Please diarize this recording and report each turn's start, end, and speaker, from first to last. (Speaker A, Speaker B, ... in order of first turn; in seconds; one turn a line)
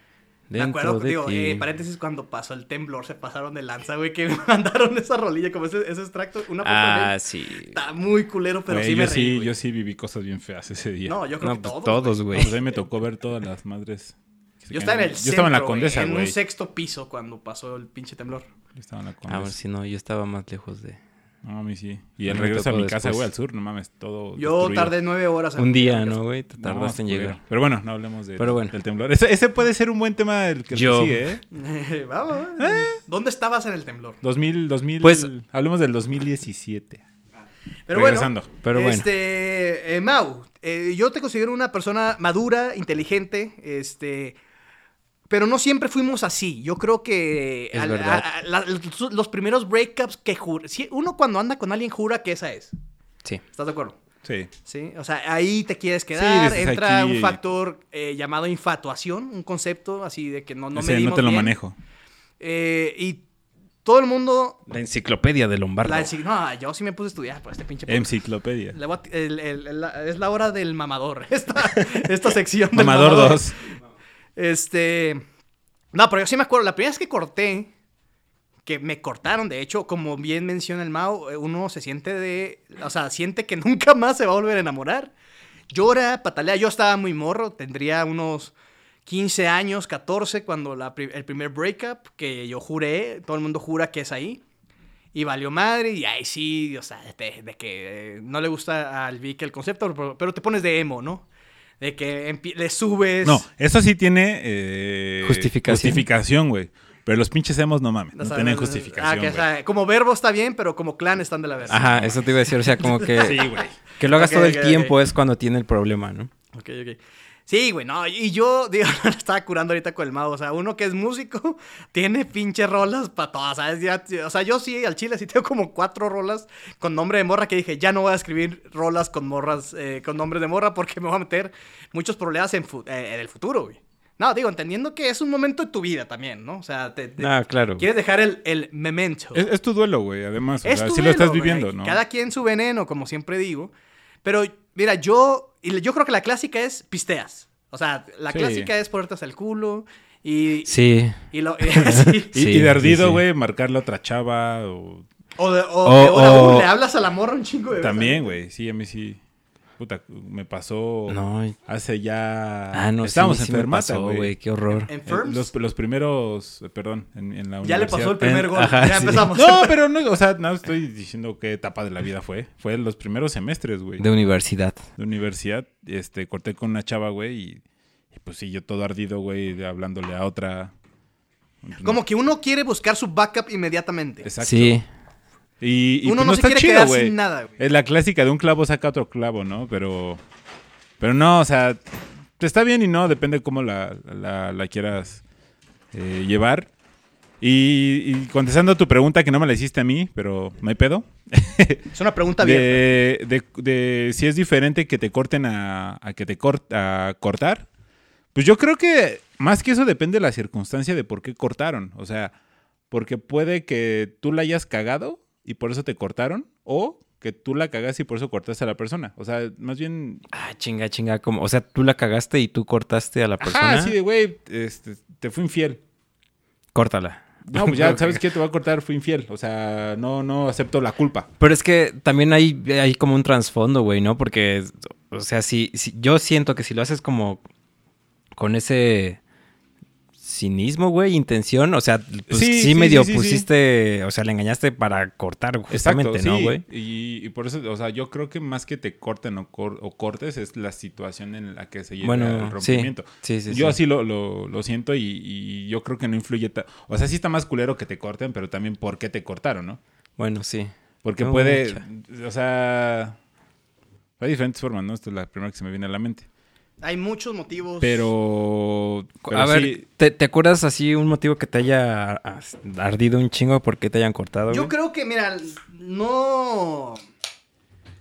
Speaker A: 0.5-1.8
Speaker B: 0.5-7.1
Speaker A: 6.6-7.8
Speaker B: 7.7-9.5
Speaker C: 8.7-11.2
Speaker B: 11.0-12.6
Speaker A: 11.4-12.5
Speaker C: 12.3-16.4
Speaker B: 14.7-18.5
Speaker C: 18.7-19.6
Speaker A: 19.3-21.0
Speaker C: 21.4-24.9
Speaker A: 22.2-23.3
Speaker B: 24.4-26.2
Speaker A: 25.6-27.4
Speaker C: 26.6-31.4
Speaker A: 28.4-28.7
Speaker A: 30.7-31.3
Speaker B: 31.5-34.2
Speaker C: 32.6-33.0
Speaker C: 34.2-37.0
Speaker A: 35.0-35.3
Speaker B: 37.9-44.4
Speaker C: 37.9-38.5
Speaker A: 38.6-39.1
Speaker B: 45.3-52.7
Speaker A: 47.7-48.3
Speaker B: 53.5-54.0
Speaker C: 54.2-54.5
Speaker B: 54.6-61.5
Speaker C: 56.1-57.4
Speaker C: 60.7-61.7
Speaker B: 62.4-63.2
Speaker B: 63.8-64.6
Speaker A: 64.7-66.1
Speaker B: 65.8-68.1
Speaker C: 67.9-68.8
Speaker B: 68.7-73.5
Speaker C: 72.7-73.5
Speaker B: 74.3-75.2
Speaker B: 75.9-77.7
Speaker B: 78.7-85.1
Speaker B: 85.7-88.5
Speaker B: 89.0-94.4
Speaker B: 95.1-101.2
Speaker B: 101.8-103.4
Speaker C: 103.2-109.4
Speaker A: 105.2-106.0
Speaker B: 108.1-112.1
Speaker A: 111.7-113.5
Speaker C: 111.7-112.2
Speaker B: 112.8-113.5
Speaker C: 113.1-113.7
Speaker A: 114.0-116.3
Speaker B: 114.1-114.9
Speaker B: 116.5-139.4
Speaker A: 137.2-137.8
Speaker C: 139.3-142.0
Speaker B: 140.6-143.7
Speaker B: 144.2-150.7
Speaker C: 148.3-148.7
Speaker A: 150.7-151.2
Speaker B: 151.3-152.4
Speaker A: 151.7-153.2
Speaker C: 152.3-155.0
Speaker B: 155.4-158.4
Speaker A: 155.8-156.7
Speaker C: 157.8-159.2
Speaker C: 159.8-164.3
Speaker A: 161.1-161.6
Speaker A: 162.7-164.9
Speaker B: 164.9-165.5
Speaker C: 165.1-168.3
Speaker B: 167.6-169.8
Speaker A: 168.2-169.3
Speaker C: 169.3-174.0
Speaker A: 174.0-174.8
Speaker C: 175.0-177.6
Speaker C: 178.1-180.7
Speaker C: 181.6-182.0
Speaker B: 181.8-184.3
Speaker C: 184.2-184.8
Speaker A: 184.4-184.8
Speaker C: 185.6-190.2
Speaker B: 186.0-187.6
Speaker C: 191.0-191.8
Speaker C: 192.4-195.2
Speaker C: 195.9-196.7
Speaker C: 197.4-201.9
Speaker B: 201.9-202.8
Speaker C: 202.4-207.7
Speaker C: 208.3-212.3
Speaker C: 212.9-220.2
Speaker A: 220.3-223.9
Speaker C: 223.4-225.8
Speaker A: 226.7-228.2
Speaker C: 227.5-231.3
Speaker A: 231.4-237.4
Speaker A: 238.3-239.2
Speaker A: 240.2-246.6
Speaker C: 242.3-243.5
Speaker C: 245.7-259.8
Speaker A: 252.0-253.8
Speaker A: 260.2-261.8
Speaker C: 261.0-263.1
Speaker C: 264.2-266.2
Speaker B: 266.8-268.1
Speaker C: 267.8-269.8
Speaker A: 269.2-274.7
Speaker B: 274.5-277.0